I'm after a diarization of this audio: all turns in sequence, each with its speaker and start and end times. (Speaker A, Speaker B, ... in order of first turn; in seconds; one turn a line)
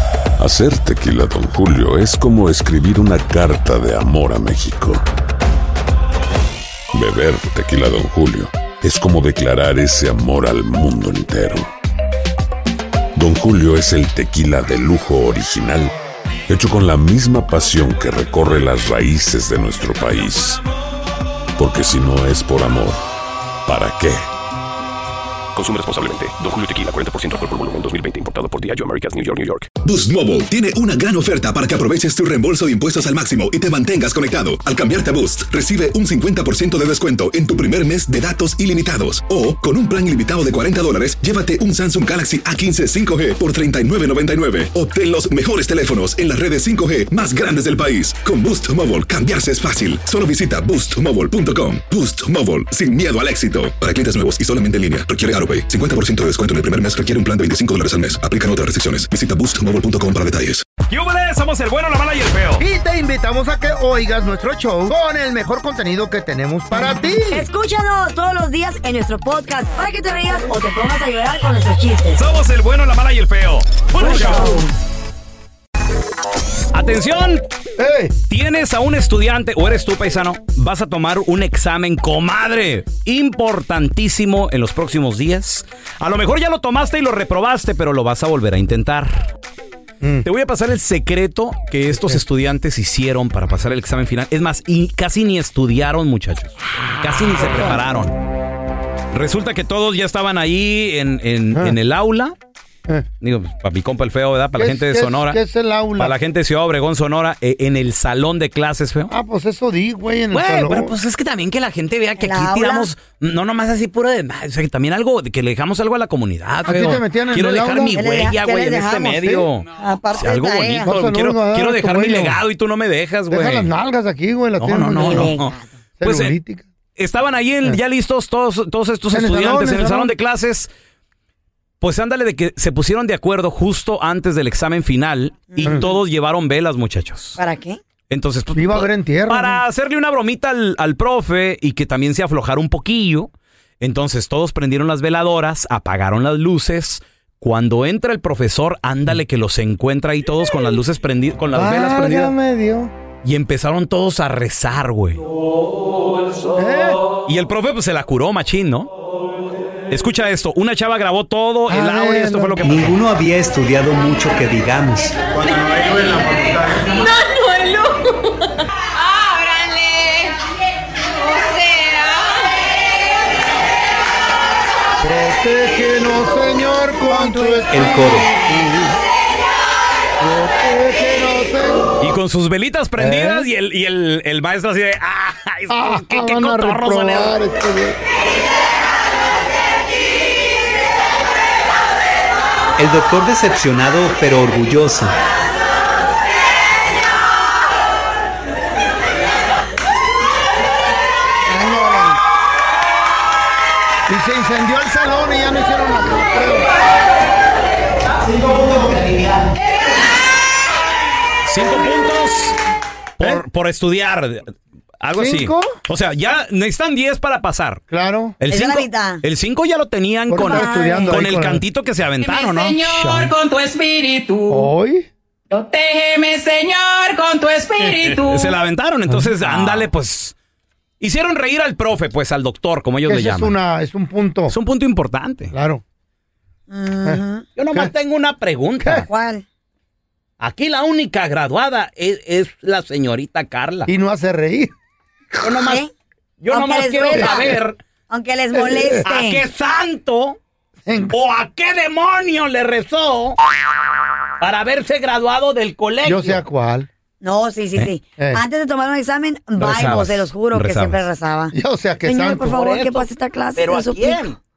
Speaker A: 0.4-5.0
Speaker A: 6.9-11.7
Speaker A: 13.2-15.9
Speaker A: 16.5-20.6
Speaker A: 21.6-23.0
Speaker A: 23.7-24.2
Speaker B: 25.6-29.7
Speaker C: 29.8-60.7
Speaker D: 60.9-62.6
Speaker E: 62.6-67.5
Speaker F: 66.7-72.2
Speaker D: 72.2-74.6
Speaker F: 74.0-74.7
Speaker D: 76.7-77.4
Speaker E: 77.8-78.2
Speaker D: 78.3-89.3
Speaker E: 90.0-90.3
Speaker D: 90.2-98.2
Speaker E: 91.9-92.2
Speaker D: 99.1-102.3
Speaker D: 103.2-105.4
Speaker E: 104.6-106.1
Speaker D: 106.0-109.1
Speaker E: 109.1-110.9
Speaker D: 110.3-123.7
Speaker F: 112.2-112.9
Speaker E: 116.7-118.0
Speaker F: 117.9-120.9
Speaker E: 120.8-122.3
Speaker E: 123.3-125.4
Speaker D: 124.6-126.3
Speaker F: 125.0-125.7
Speaker E: 126.0-126.7
Speaker D: 127.0-130.7
Speaker E: 129.1-130.1
Speaker D: 131.8-137.4
Speaker F: 135.5-135.9
Speaker F: 137.4-137.8
Speaker D: 138.1-152.3
Speaker E: 138.6-139.6
Speaker E: 151.6-152.9
Speaker D: 153.2-155.2
Speaker E: 156.6-157.0
Speaker D: 157.2-158.9
Speaker D: 159.9-163.1
Speaker E: 161.7-162.9
Speaker G: 163.1-165.0
Speaker D: 165.4-165.8
Speaker H: 165.4-172.6
Speaker E: 175.0-179.0
Speaker F: 177.1-178.2
Speaker G: 177.7-178.2
Speaker E: 180.2-181.9
Speaker D: 182.0-187.4
Speaker E: 183.0-183.5
Speaker E: 185.7-188.0
Speaker G: 192.8-195.1
Speaker F: 201.5-202.2
Speaker E: 204.1-206.7
Speaker E: 208.4-209.0
Speaker D: 211.4-212.6
Speaker D: 213.2-214.5
Speaker D: 215.0-217.8
Speaker E: 215.2-215.8
Speaker E: 217.9-218.4
Speaker D: 218.4-222.8
Speaker F: 218.5-219.2
Speaker E: 220.3-221.6
Speaker F: 220.4-221.2
Speaker H: 222.2-224.7
Speaker E: 222.9-223.3
Speaker E: 224.5-225.1
Speaker H: 225.5-228.6
Speaker D: 228.2-230.3
Speaker E: 229.1-229.9
Speaker D: 231.0-233.6
Speaker E: 233.1-234.5
Speaker D: 234.5-235.5
Speaker E: 235.5-235.8
Speaker F: 236.7-237.4
Speaker D: 237.6-239.1
Speaker F: 239.1-239.4
Speaker D: 240.4-243.9
Speaker E: 243.9-244.7
Speaker D: 245.4-245.8
Speaker F: 245.4-245.9
Speaker D: 246.4-247.8
Speaker F: 246.5-249.5
Speaker E: 247.2-247.5
Speaker E: 248.5-249.0
Speaker D: 249.0-250.4
Speaker E: 250.9-251.1
Speaker D: 251.1-253.4
Speaker D: 254.4-256.4
Speaker E: 256.0-256.9
Speaker F: 257.2-264.4
Speaker E: 258.2-258.4
Speaker E: 259.6-260.1
Speaker D: 259.6-261.0
Speaker E: 261.5-262.6
Speaker D: 262.5-264.4